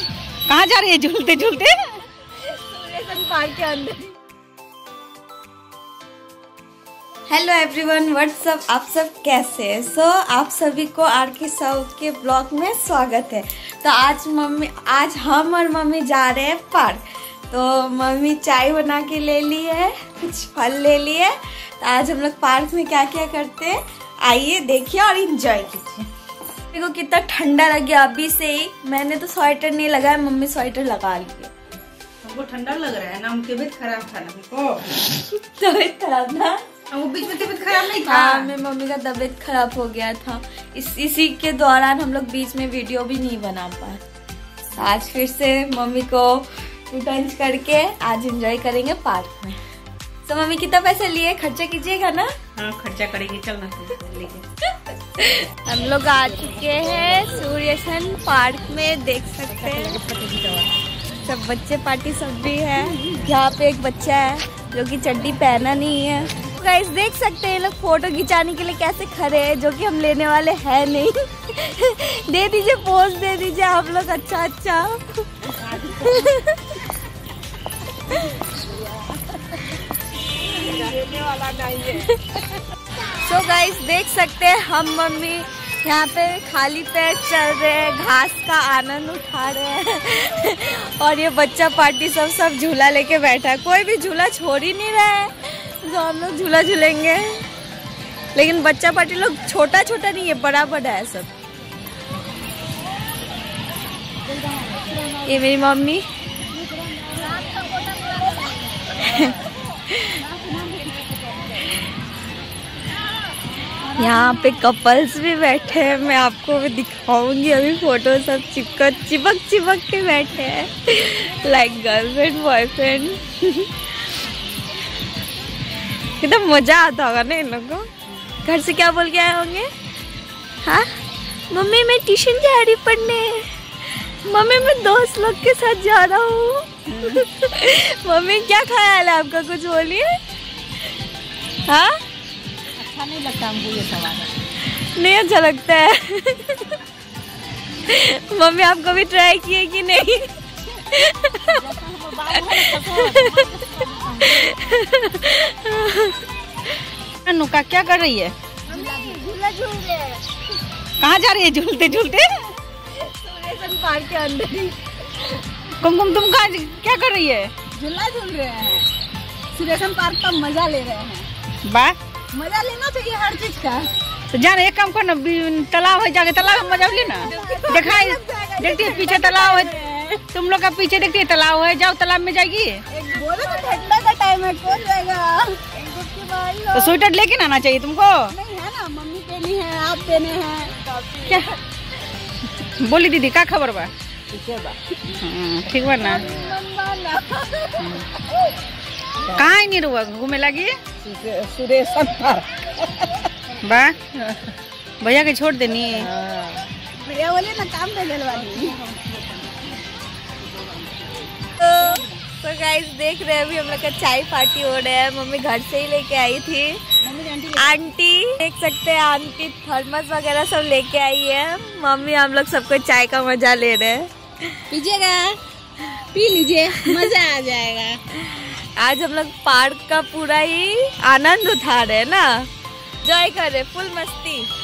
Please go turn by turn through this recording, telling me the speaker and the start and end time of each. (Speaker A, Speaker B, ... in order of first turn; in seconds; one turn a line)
Speaker A: 0.5-2.0
Speaker B: 2.3-4.2
Speaker B: 7.3-26.1
Speaker B: 26.7-31.5
Speaker A: 32.2-35.0
Speaker B: 35.4-36.6
Speaker A: 36.9-38.5
Speaker B: 37.8-44.0
Speaker B: 44.8-49.6
Speaker B: 50.2-52.3
Speaker A: 52.5-54.5
Speaker B: 54.7-60.1
Speaker A: 59.9-60.7
Speaker B: 61.2-76.9
Speaker C: 75.6-76.2
Speaker B: 78.0-78.5
Speaker B: 80.5-81.0
Speaker B: 81.8-82.5
Speaker B: 83.1-97.4
Speaker B: 98.3-101.3
Speaker C: 104.2-105.4
Speaker B: 105.2-106.0
Speaker C: 106.5-109.3
Speaker B: 108.9-110.2
Speaker C: 110.1-111.8
Speaker C: 113.8-114.5
Speaker B: 114.0-123.9
Speaker B: 126.2-129.7
Speaker B: 130.6-131.0
Speaker B: 131.5-140.1
Speaker B: 141.6-142.0
Speaker C: 142.8-144.3
Speaker B: 144.6-146.8
Speaker B: 147.8-151.6
Speaker C: 151.4-154.6
Speaker B: 152.3-156.7
Speaker A: 157.2-158.3
Speaker C: 158.7-159.3
Speaker B: 158.7-160.2
Speaker A: 161.0-162.4
Speaker B: 162.9-164.8
Speaker A: 165.8-167.5
Speaker C: 167.7-168.9
Speaker C: 169.5-171.3
Speaker A: 171.6-172.0
Speaker C: 172.3-173.9
Speaker A: 174.3-179.7
Speaker C: 176.8-180.2
Speaker A: 180.3-182.8
Speaker C: 182.9-187.0
Speaker A: 186.7-188.3
Speaker C: 188.3-191.3
Speaker A: 191.2-191.5
Speaker A: 192.6-193.9
Speaker C: 194.3-194.8
Speaker A: 195.1-196.3
Speaker C: 196.0-198.0
Speaker A: 197.8-198.0
Speaker A: 199.3-200.8
Speaker C: 201.0-203.1
Speaker A: 203.6-204.4
Speaker A: 205.0-206.1
Speaker C: 206.2-209.4
Speaker C: 210.4-211.2
Speaker B: 211.6-216.8
Speaker C: 217.0-217.8
Speaker B: 217.6-224.6
Speaker C: 224.7-228.0
Speaker B: 228.1-232.5
Speaker B: 233.0-234.5